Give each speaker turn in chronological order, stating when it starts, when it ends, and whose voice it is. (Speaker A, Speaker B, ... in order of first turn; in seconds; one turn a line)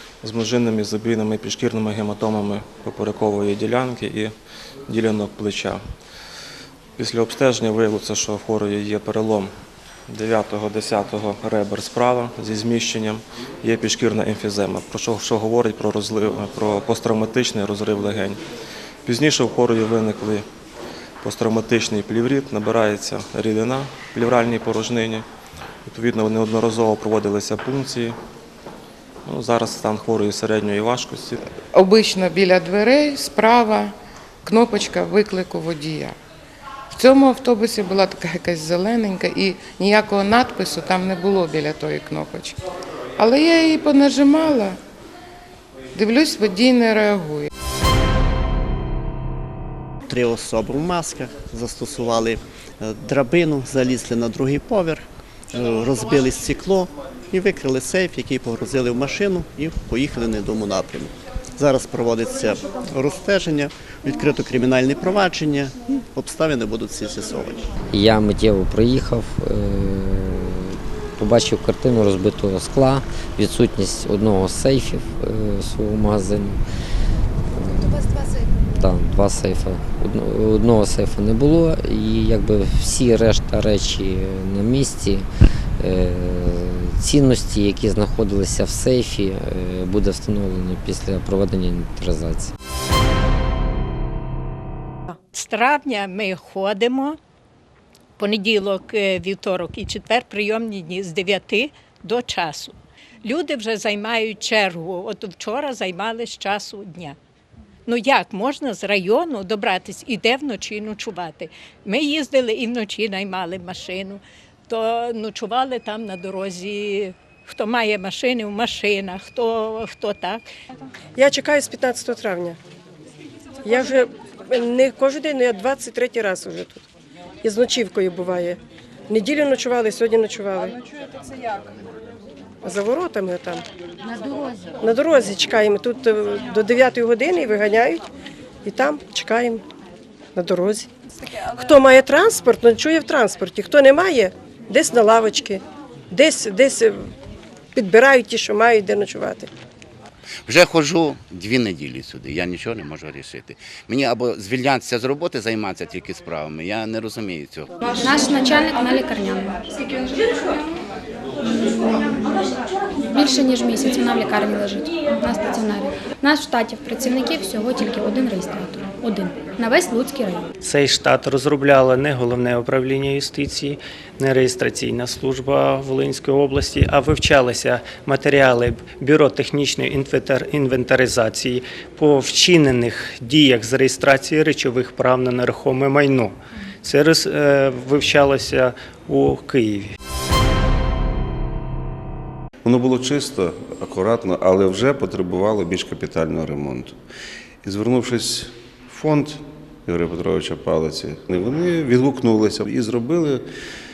Speaker A: 0.2-4.3
Speaker A: 4.9-5.8
Speaker A: 7.0-9.5
Speaker A: 10.1-18.4
Speaker A: 19.1-20.5
Speaker A: 21.2-25.3
Speaker A: 25.9-28.2
Speaker A: 29.2-31.4
Speaker B: 31.7-33.9
Speaker B: 34.5-36.1
Speaker B: 36.9-42.6
Speaker B: 43.2-44.8
Speaker B: 46.0-47.5
Speaker C: 50.1-67.7
Speaker D: 67.9-76.6
Speaker D: 77.5-77.9
Speaker D: 78.8-85.3
Speaker D: 85.8-92.5
Speaker E: 95.3-97.2
Speaker E: 98.2-107.2
Speaker E: 107.9-120.4
Speaker F: 121.2-122.6
Speaker F: 123.6-126.8
Speaker F: 127.4-130.8
Speaker F: 132.6-133.6
Speaker F: 134.8-138.0
Speaker F: 138.7-139.6
Speaker F: 140.4-140.9
Speaker F: 141.5-147.1
Speaker F: 147.8-149.5
Speaker G: 150.5-157.7
Speaker H: 158.0-159.5
Speaker H: 163.1-170.4
Speaker I: 170.6-189.9
Speaker J: 192.7-197.0
Speaker J: 197.6-203.4